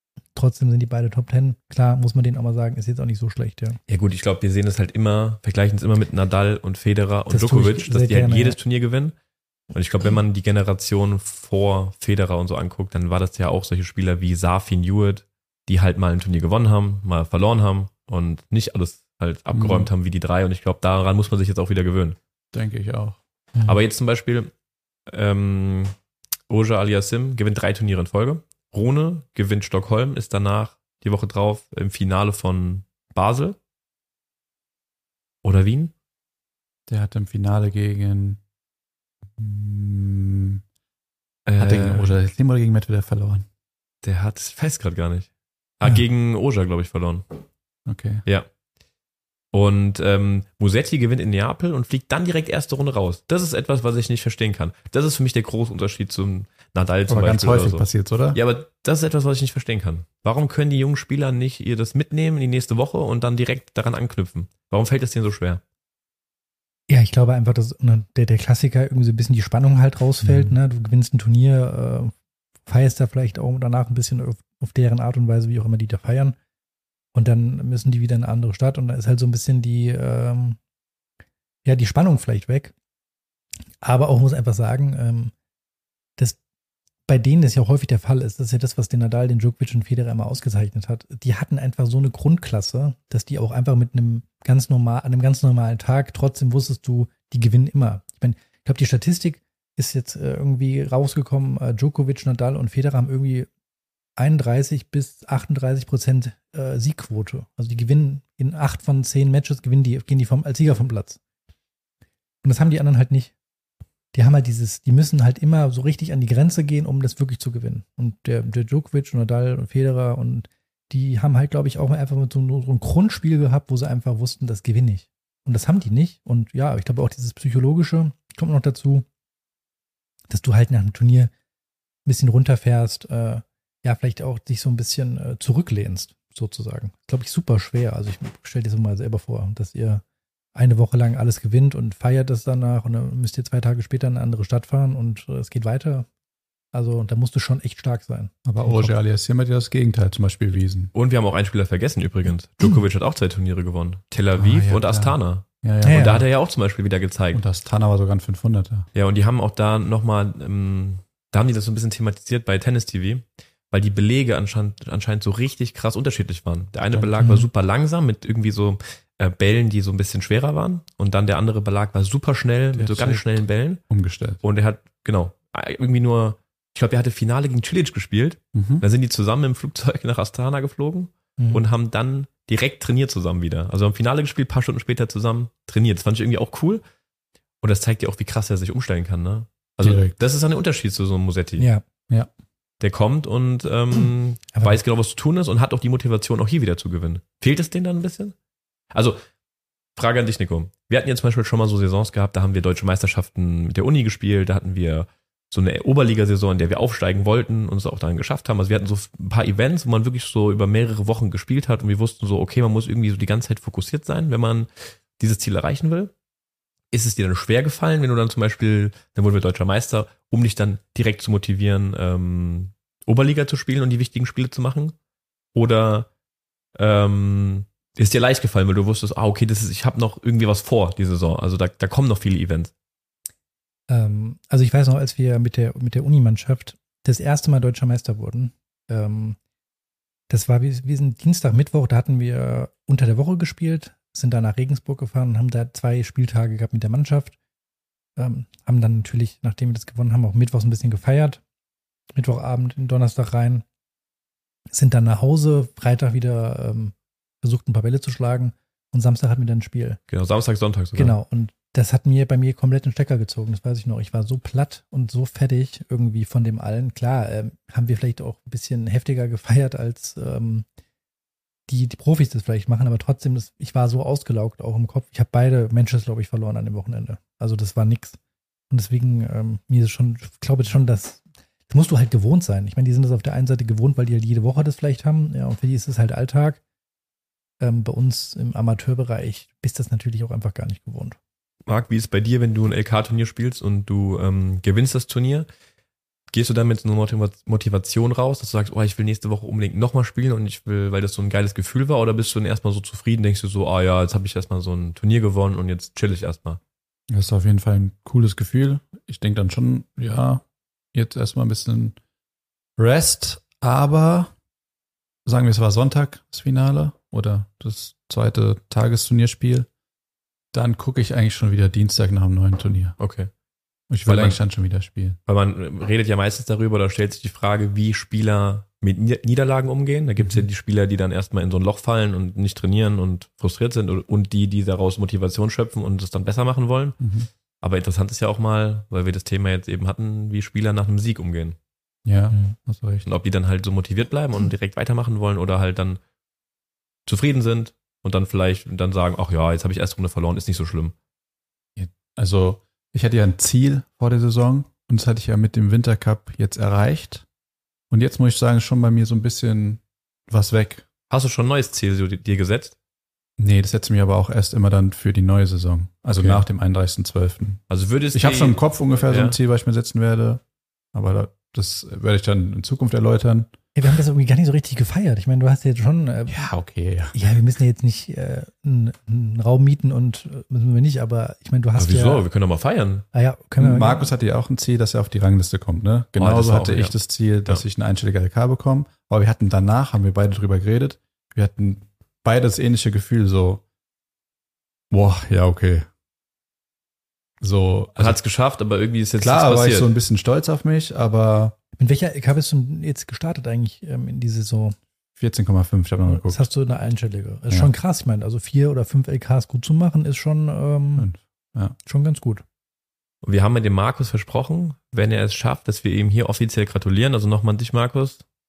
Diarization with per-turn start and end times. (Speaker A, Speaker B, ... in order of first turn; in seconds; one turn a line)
Speaker A: 0.3-3.8
Speaker B: 3.9-9.1
Speaker A: 7.3-8.6
Speaker B: 9.7-22.2
Speaker C: 19.5-19.9
Speaker C: 22.5-23.2
Speaker B: 23.6-24.5
Speaker B: 25.1-25.9
Speaker B: 26.5-33.6
Speaker B: 35.4-35.9
Speaker C: 36.9-38.4
Speaker C: 39.4-40.6
Speaker B: 41.5-42.1
Speaker C: 41.6-43.4
Speaker B: 44.0-47.2
Speaker C: 47.9-48.2
Speaker B: 49.5-65.6
Speaker C: 57.1-58.4
Speaker A: 66.9-72.1
Speaker C: 70.2-70.5
Speaker A: 72.7-76.4
Speaker A: 77.1-80.6
Speaker A: 81.6-82.7
Speaker A: 83.8-85.3
Speaker A: 87.1-103.5
Speaker A: 104.2-111.2
Speaker A: 112.4-113.3
Speaker A: 114.1-129.1
Speaker A: 130.3-131.3
Speaker A: 132.1-140.0
Speaker A: 140.5-146.1
Speaker A: 146.7-148.9
Speaker C: 148.4-150.9
Speaker B: 150.9-157.4
Speaker C: 154.3-156.2
Speaker A: 155.8-156.2
Speaker C: 157.3-158.9
Speaker B: 158.9-173.8
Speaker C: 166.9-167.3
Speaker C: 172.7-174.4
Speaker B: 174.4-186.8
Speaker C: 178.5-178.8
Speaker A: 181.4-181.6
Speaker B: 187.6-191.7
Speaker C: 189.8-190.1
Speaker A: 191.6-191.8
Speaker B: 192.8-198.3
Speaker A: 193.9-194.8
Speaker B: 198.9-199.2
Speaker B: 199.9-216.1
Speaker B: 216.9-224.9
Speaker B: 225.5-226.1
Speaker B: 226.8-232.7
Speaker A: 233.9-239.4
Speaker A: 240.3-247.3
Speaker A: 248.2-251.4
Speaker A: 252.1-253.6
Speaker A: 254.7-260.0
Speaker B: 260.1-261.1
Speaker A: 260.9-270.6
Speaker A: 271.7-278.2
Speaker A: 278.7-286.6
Speaker A: 287.6-291.2
Speaker B: 291.7-295.5
Speaker B: 296.3-306.6
Speaker C: 307.1-312.0
Speaker C: 312.8-314.3
Speaker C: 315.2-319.7
Speaker C: 320.5-323.0
Speaker B: 323.0-323.3
Speaker C: 323.9-325.2
Speaker B: 324.0-324.4
Speaker B: 325.2-337.0
Speaker C: 330.2-330.5
Speaker C: 337.0-337.3
Speaker B: 337.6-341.6
Speaker C: 342.1-343.1
Speaker B: 343.0-346.0
Speaker B: 347.1-350.9
Speaker C: 351.8-357.2
Speaker C: 357.9-360.9
Speaker B: 361.1-362.7
Speaker C: 363.4-370.4
Speaker B: 366.1-366.4
Speaker B: 367.7-369.4
Speaker C: 370.9-373.5
Speaker A: 373.8-376.4
Speaker C: 376.3-377.3
Speaker A: 377.1-382.2
Speaker B: 381.8-383.1
Speaker A: 383.1-384.1
Speaker C: 383.6-393.6
Speaker B: 386.2-386.9
Speaker C: 394.9-395.9
Speaker C: 397.4-398.2
Speaker B: 398.0-399.9
Speaker C: 399.2-401.6
Speaker A: 401.8-404.8
Speaker C: 405.1-406.5
Speaker A: 406.1-411.1
Speaker C: 411.0-411.8
Speaker A: 411.8-412.4
Speaker B: 413.2-418.2